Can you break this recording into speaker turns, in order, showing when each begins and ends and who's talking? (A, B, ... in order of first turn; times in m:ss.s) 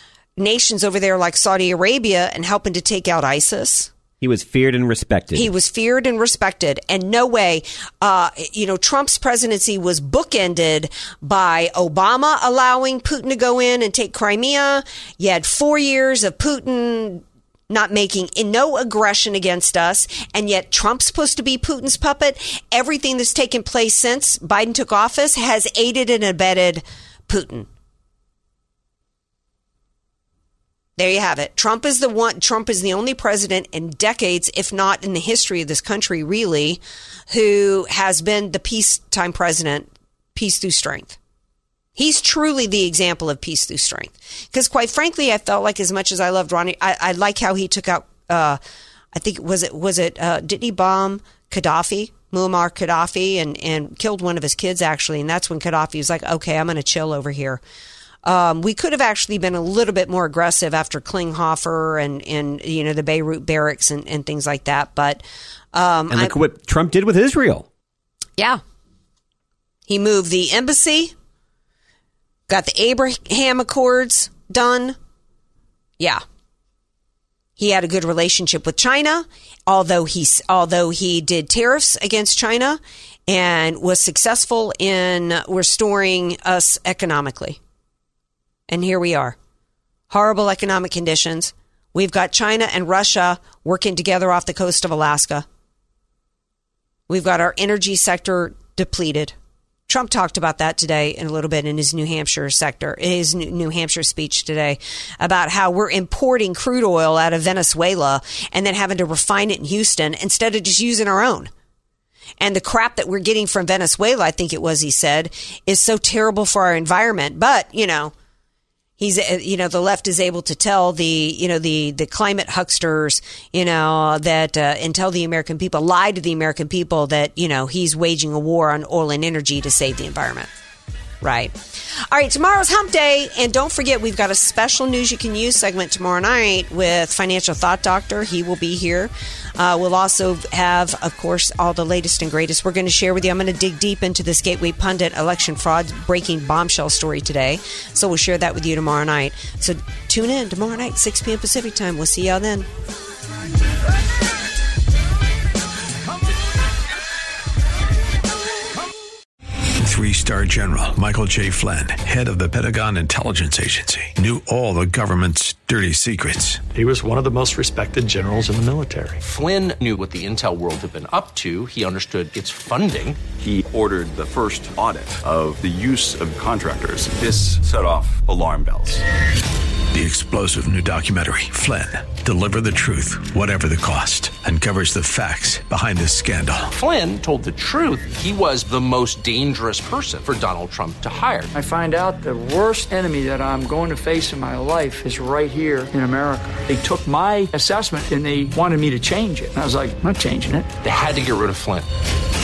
0:00.4-0:03.9 A
0:04.2-0:05.5 B
0:05.3-0:27.7 A
0:31.0-0:41.2 A
0:42.0-0:48.6 A
0:49.1-0:57.6 A
0:58.2-1:06.4 A
1:06.1-1:07.7 B
1:09.9-1:11.1 A
1:12.5-1:15.0 A
1:17.6-1:27.6 A
1:28.7-1:29.4 A
1:30.1-1:35.4 A
1:37.1-1:39.3 A
1:39.9-1:51.5 A
1:52.4-1:58.1 A
1:59.0-2:10.5 A
2:11.2-2:32.7 A
2:39.8-2:46.6 C
2:46.7-2:49.2 D
2:49.2-2:53.3 E
2:53.3-2:59.0 F
2:59.9-3:06.7 C
3:06.7-3:11.5 E
3:11.5-3:20.7 G
3:20.8-3:21.9 E